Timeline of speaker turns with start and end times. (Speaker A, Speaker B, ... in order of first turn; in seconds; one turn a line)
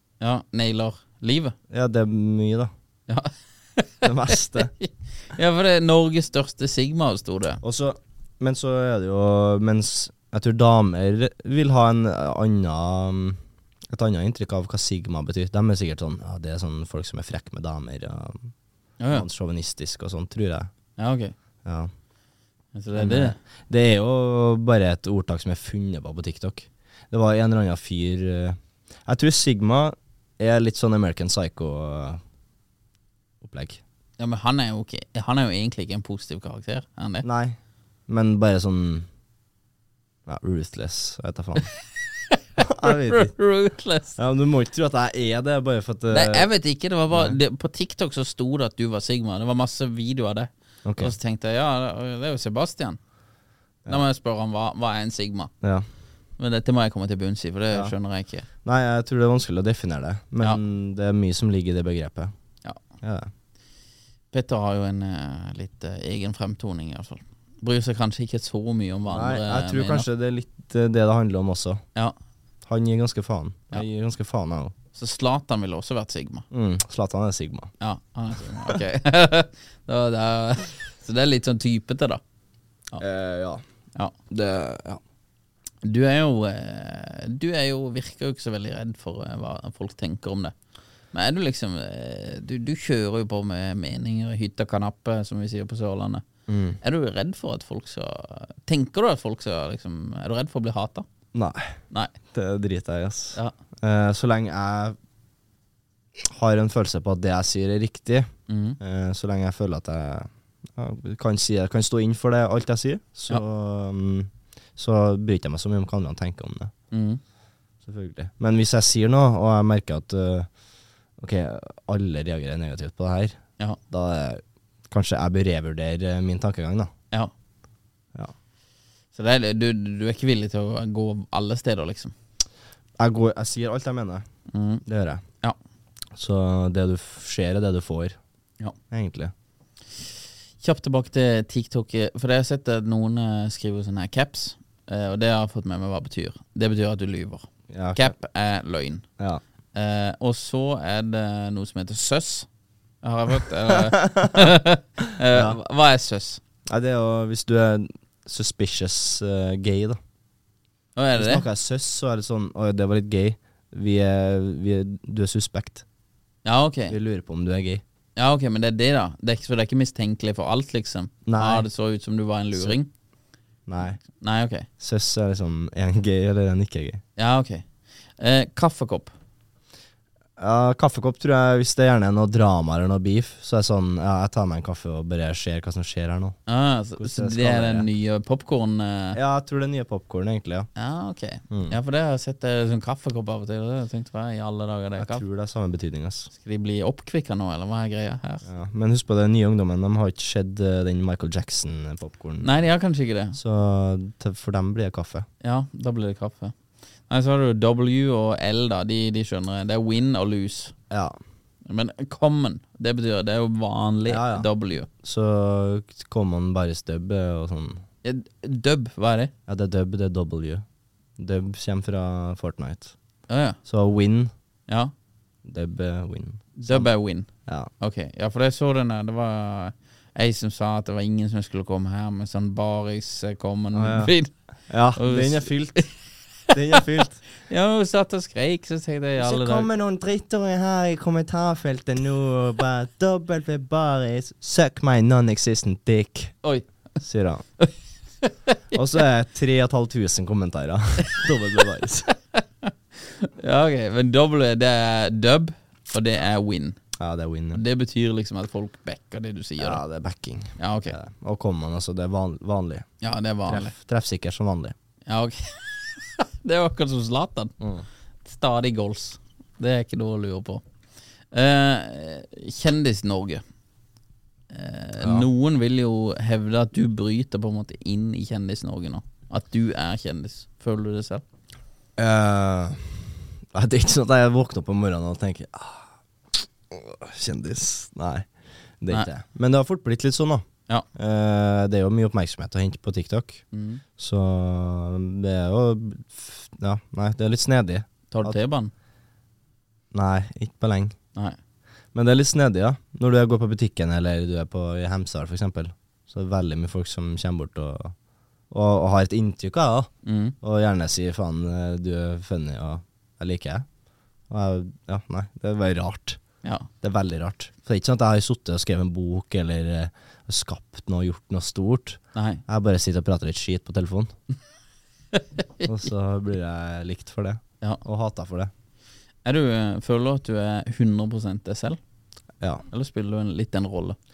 Speaker A: 0.2-1.6
Speaker B: 1.7-2.7
Speaker A: 3.1-7.6
Speaker B: 4.0-4.7
Speaker B: 7.6-18.5
Speaker A: 19.0-19.3
Speaker B: 19.1-20.7
Speaker A: 21.0-21.3
Speaker B: 21.6-21.9
Speaker A: 22.7-23.4
Speaker B: 22.9-32.2
Speaker B: 33.4-33.8
Speaker A: 34.2-37.2
Speaker B: 37.2-39.1
Speaker B: 40.2-41.7
Speaker A: 42.3-44.2
Speaker B: 42.6-43.3
Speaker B: 44.1-46.5
Speaker A: 46.1-53.0
Speaker B: 47.1-47.4
Speaker B: 50.8-51.1
Speaker A: 53.9-55.5
Speaker A: 56.4-58.5
Speaker B: 58.6-62.3
Speaker B: 63.0-63.3
Speaker A: 64.3-70.1
Speaker B: 69.1-71.8
Speaker B: 72.7-74.7
Speaker A: 74.9-76.5
Speaker B: 76.5-77.7
Speaker A: 77.8-82.2
Speaker B: 83.0-83.6
Speaker B: 84.3-85.0
Speaker A: 85.8-90.5
Speaker A: 91.1-96.2
Speaker B: 96.5-96.8
Speaker A: 96.8-101.0
Speaker B: 101.3-101.8
Speaker B: 102.3-105.0
Speaker B: 106.2-116.7
Speaker A: 108.5-108.8
Speaker A: 116.9-117.2
Speaker B: 117.8-120.5
Speaker B: 121.2-126.9
Speaker A: 129.1-132.1
Speaker B: 133.0-134.2
Speaker A: 134.5-134.8
Speaker B: 134.8-135.2
Speaker B: 136.2-138.2
Speaker B: 138.9-139.3
Speaker A: 140.6-149.0
Speaker B: 147.7-148.1
Speaker A: 149.7-152.5
Speaker A: 153.0-156.4
Speaker B: 153.7-154.5
Speaker B: 155.3-155.6
Speaker B: 156.7-160.0
Speaker A: 160.9-161.4
Speaker B: 161.2-165.8
Speaker A: 166.4-166.9
Speaker B: 166.9-167.8
Speaker A: 168.2-172.9
Speaker B: 171.2-171.7
Speaker B: 173.7-174.0
Speaker A: 174.1-174.7
Speaker B: 174.8-177.0
Speaker A: 177.2-177.6
Speaker A: 178.2-179.1
Speaker B: 180.4-186.4
Speaker A: 186.5-189.2
Speaker B: 187.0-187.9
Speaker B: 189.1-190.7
Speaker A: 190.8-195.2
Speaker B: 191.5-191.8
Speaker B: 195.0-196.3
Speaker A: 196.3-198.4
Speaker B: 198.4-202.6
Speaker A: 202.4-203.4
Speaker B: 203.3-205.2
Speaker A: 205.4-206.5
Speaker A: 207.1-210.7
Speaker B: 210.9-211.2
Speaker A: 211.7-214.9
Speaker B: 214.1-214.5
Speaker B: 215.0-217.8
Speaker A: 218.0-219.3
Speaker B: 219.5-220.6
Speaker B: 221.2-222.9
Speaker A: 223.3-223.6
Speaker B: 223.6-224.3
Speaker B: 225.4-226.9
Speaker A: 226.6-227.3
Speaker A: 227.8-234.3
Speaker B: 233.7-234.1
Speaker B: 234.7-235.8
Speaker A: 234.9-235.9
Speaker B: 236.5-237.2
Speaker A: 237.4-239.7
Speaker B: 239.2-246.3
Speaker B: 247.0-247.4
Speaker A: 248.2-248.6
Speaker B: 248.7-252.1
Speaker A: 252.4-256.8
Speaker B: 257.0-257.6
Speaker A: 257.5-259.8
Speaker B: 259.6-262.9
Speaker A: 260.6-260.9
Speaker A: 263.0-263.7
Speaker B: 263.4-264.7
Speaker A: 265.1-267.5
Speaker B: 267.6-267.8
Speaker A: 268.2-270.6
Speaker A: 271.3-273.4
Speaker A: 274.5-281.2
Speaker B: 275.0-275.3
Speaker B: 282.0-288.3
Speaker B: 288.8-293.4
Speaker A: 293.5-293.8
Speaker B: 294.0-298.4
Speaker A: 298.1-298.7
Speaker B: 299.9-300.9
Speaker B: 301.9-307.9
Speaker B: 308.5-313.6
Speaker A: 310.0-310.3
Speaker B: 314.3-316.2
Speaker B: 316.8-324.1
Speaker A: 322.1-322.4
Speaker A: 325.1-325.6
Speaker B: 325.6-328.5
Speaker A: 329.2-331.8
Speaker A: 332.7-334.0